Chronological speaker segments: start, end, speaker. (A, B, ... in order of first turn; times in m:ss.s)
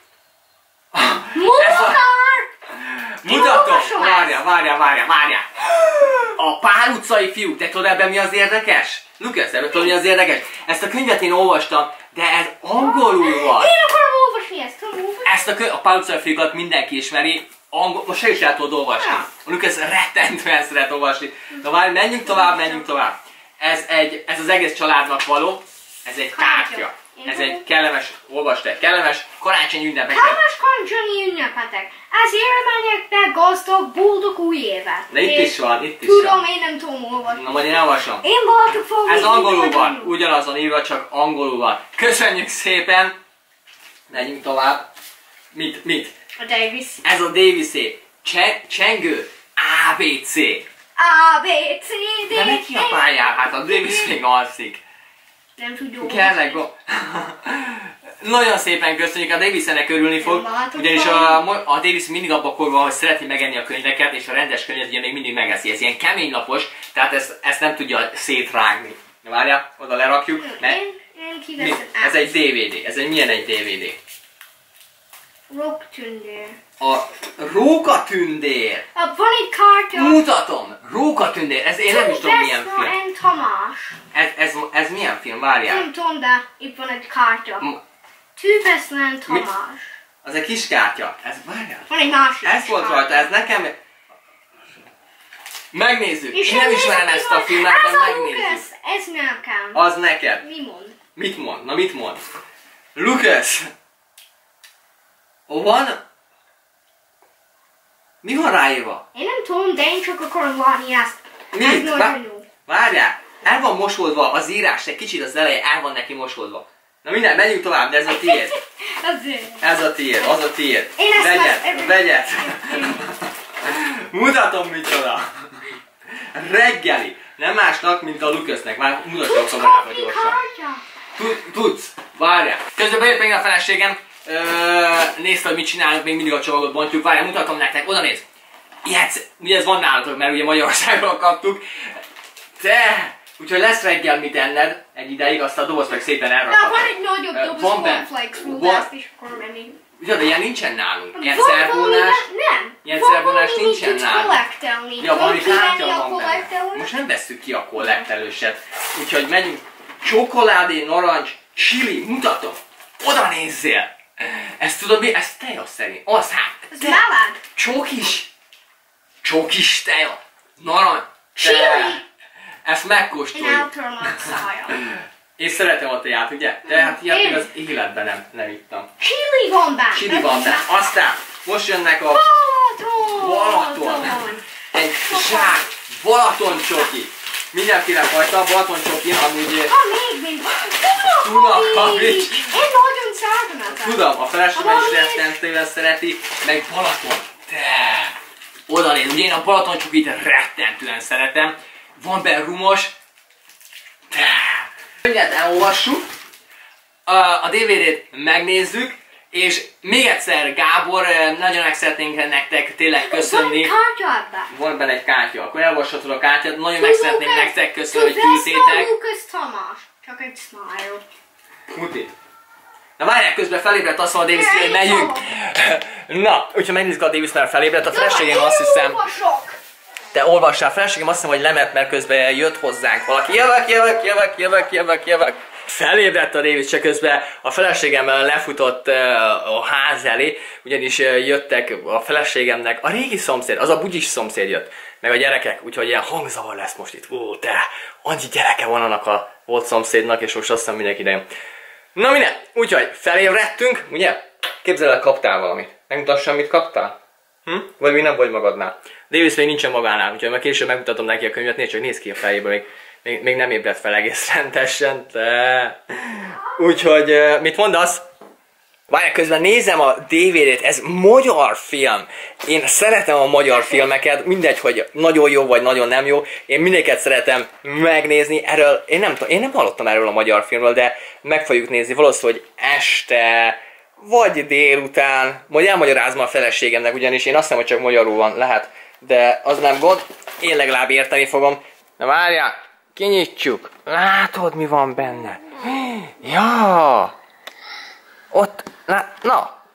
0:00.9-0:02.0 A
0:01.3-0:02.5 B
0:02.7-0:13.7 A
0:03.2-0:04.4 B
0:12.8-0:15.3 B
0:15.2-0:30.4 A
0:19.0-0:19.2 B
0:22.3-0:22.8 B
0:26.3-0:27.6 B
0:30.1-0:40.1 B
0:35.1-0:36.4 A
0:37.2-0:38.2 A
0:39.0-0:43.2 A
0:44.1-0:44.9 A
0:45.5-0:46.1 A
0:46.4-0:47.0 B
0:47.0-0:50.6 A
0:51.0-0:54.1 B
0:52.3-0:54.8 A
0:55.6-0:56.6 B
0:56.0-1:10.8 A
1:00.2-1:01.4 B
1:10.4-1:12.2 B
1:11.6-1:14.0 A
1:15.5-1:16.6 B
1:16.8-1:18.8 A
1:18.9-1:20.2 B
1:19.9-1:22.9 A
1:21.9-1:24.0 B
1:24.1-1:25.9 A
1:25.7-1:27.6 B
1:28.4-1:29.9 B
1:30.2-1:31.9 A
1:31.9-1:33.3 B
1:32.4-1:33.8 A
1:35.7-1:38.6 A
1:36.3-1:39.8 B
1:39.7-1:40.4 A
1:40.4-1:41.0 B
1:41.1-1:42.2 A
1:42.9-1:43.7 A
1:45.5-1:46.0 A
1:48.2-1:49.0 A
1:49.1-1:52.4 B
1:51.5-1:58.5 A
1:58.1-1:59.6 B
1:59.6-2:05.3 A
2:01.0-2:03.0 B
2:06.3-2:10.4 A
2:09.2-2:10.8 B
2:11.2-2:18.2 A
2:18.8-2:21.6 A
2:22.6-2:28.8 A
2:26.5-2:29.8 B
2:30.0-2:32.2 A
2:31.2-2:36.9 B
2:32.8-2:34.4 A
2:35.0-2:47.0 A
2:46.7-2:47.4 B
2:47.5-2:48.3 A
2:49.2-2:52.0 A
2:51.4-2:52.0 B
2:52.6-2:53.7 A
2:53.3-2:54.8 B
2:54.8-2:58.9 A
2:56.6-2:57.5 B
2:59.0-3:00.7 B
2:59.9-3:02.2 A
3:02.1-3:04.4 B
3:03.1-3:04.2 A
3:04.7-3:09.7 A
3:05.0-3:05.6 B
3:06.5-3:06.9 B
3:09.6-3:14.0 B
3:11.1-3:12.5 A
3:13.7-3:18.1 A
3:14.5-3:15.2 B
3:18.7-3:22.9 A
3:24.1-3:26.1 A
3:27.1-3:33.7 A
3:33.0-3:34.5 B
3:34.5-3:38.9 A
3:36.8-3:41.0 B
3:41.7-3:42.1 A
3:43.0-3:49.0 A
3:44.3-3:45.2 B
3:47.9-3:49.6 B
3:50.1-4:11.2 A
4:11.9-4:28.0 A
4:28.9-4:57.2 A
4:58.3-4:59.6 A